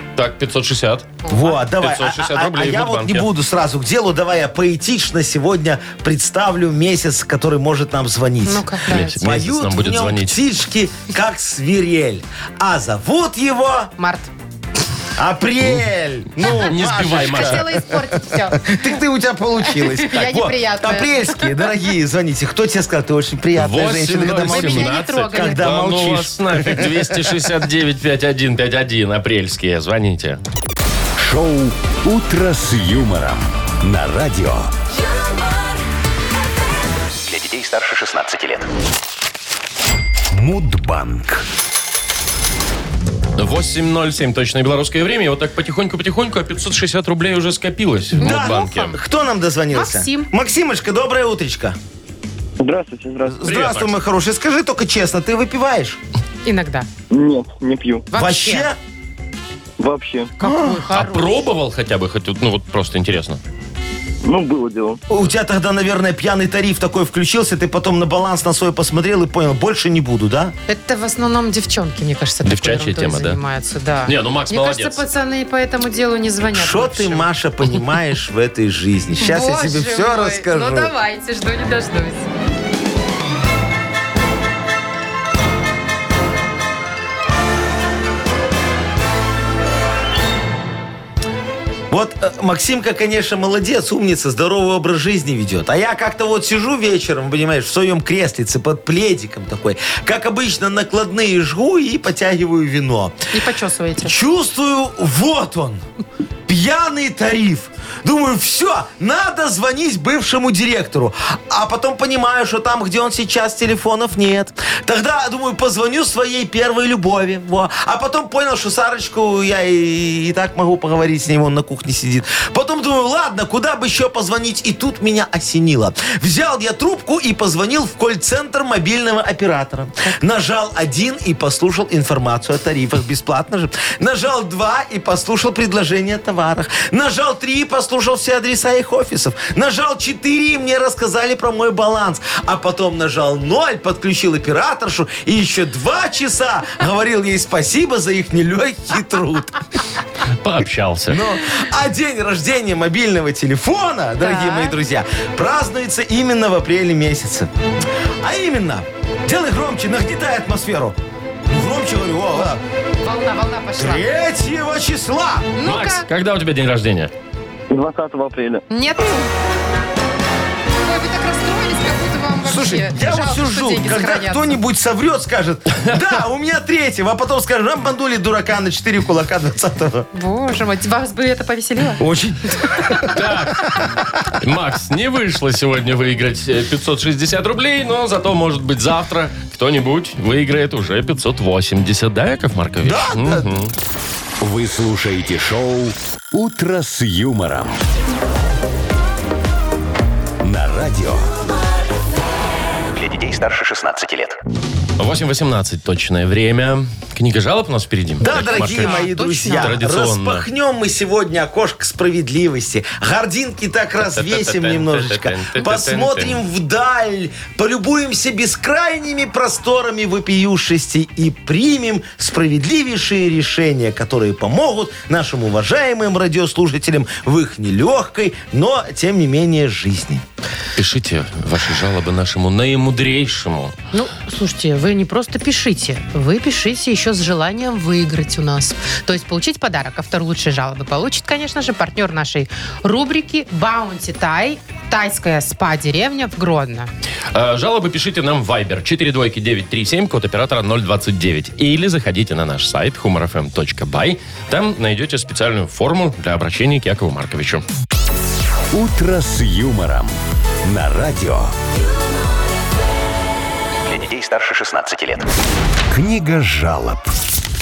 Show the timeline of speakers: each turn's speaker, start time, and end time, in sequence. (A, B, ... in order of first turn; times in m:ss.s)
0:00.2-0:01.1 A
0:01.2-0:01.6 B
0:01.3-0:13.9 C
0:01.8-0:03.3 A
0:08.4-0:09.1 B
0:08.9-0:10.4 A
0:14.0-0:14.3 B
0:15.2-0:27.2 C
0:16.4-0:18.8 B
0:16.5-0:17.8 A
0:19.6-0:21.6 B
0:23.6-0:30.4 A
0:24.4-0:25.7 B
0:31.2-0:34.7 D
0:37.2-0:38.7 E
0:40.3-0:41.4 D
0:43.4-0:49.0 A
0:48.2-0:51.8 C
0:48.2-0:49.0 B
0:49.7-0:50.3 B
0:52.6-0:53.4 F
0:53.3-0:56.0 C
0:53.4-0:53.9 A
0:56.4-0:56.9 B
0:57.1-0:58.1 F
0:58.1-0:58.7 B
0:58.1-0:58.8 C
0:59.8-1:00.3 F
1:00.4-1:01.3 B
1:00.4-1:00.9 C
1:00.9-1:03.4 A
1:04.2-1:05.0 F
1:05.1-1:10.5 C
1:10.7-1:17.2 B
1:12.4-1:13.4 A
1:14.0-1:15.0 A
1:16.5-1:20.9 C
1:19.2-1:22.3 B
1:31.9-1:43.2 C
1:43.3-1:44.2 B
1:44.0-1:45.8 C
1:46.5-2:29.8 C
2:30.3-2:31.3 A
2:31.1-2:37.5 C
2:34.2-2:34.8 B
2:38.2-2:41.0 C
2:41.5-2:42.6 C
2:43.0-2:44.1 B
2:43.8-2:45.5 C
2:45.6-2:46.1 B
2:45.6-2:47.1 A
2:47.7-2:48.6 F
2:48.7-2:49.3 B
2:50.8-2:54.6 B
2:52.4-3:00.1 C
3:00.1-3:02.0 B
3:02.0-3:03.8 C
3:03.1-3:03.8 A
3:04.3-3:13.7 A
3:12.8-3:13.6 C
3:14.4-3:17.8 D
3:20.4-3:21.3 D
3:22.9-3:24.4 E
3:25.0-3:30.4 A
3:28.2-3:50.2 C
3:28.2-3:29.8 B
3:34.0-3:36.4 A
3:50.8-3:53.7 A
3:53.9-4:06.9 B
4:07.3-4:17.6 A
4:18.7-4:20.1 D
4:20.6-4:21.5 D
4:23.8-4:25.3 E
4:25.9-4:27.1 D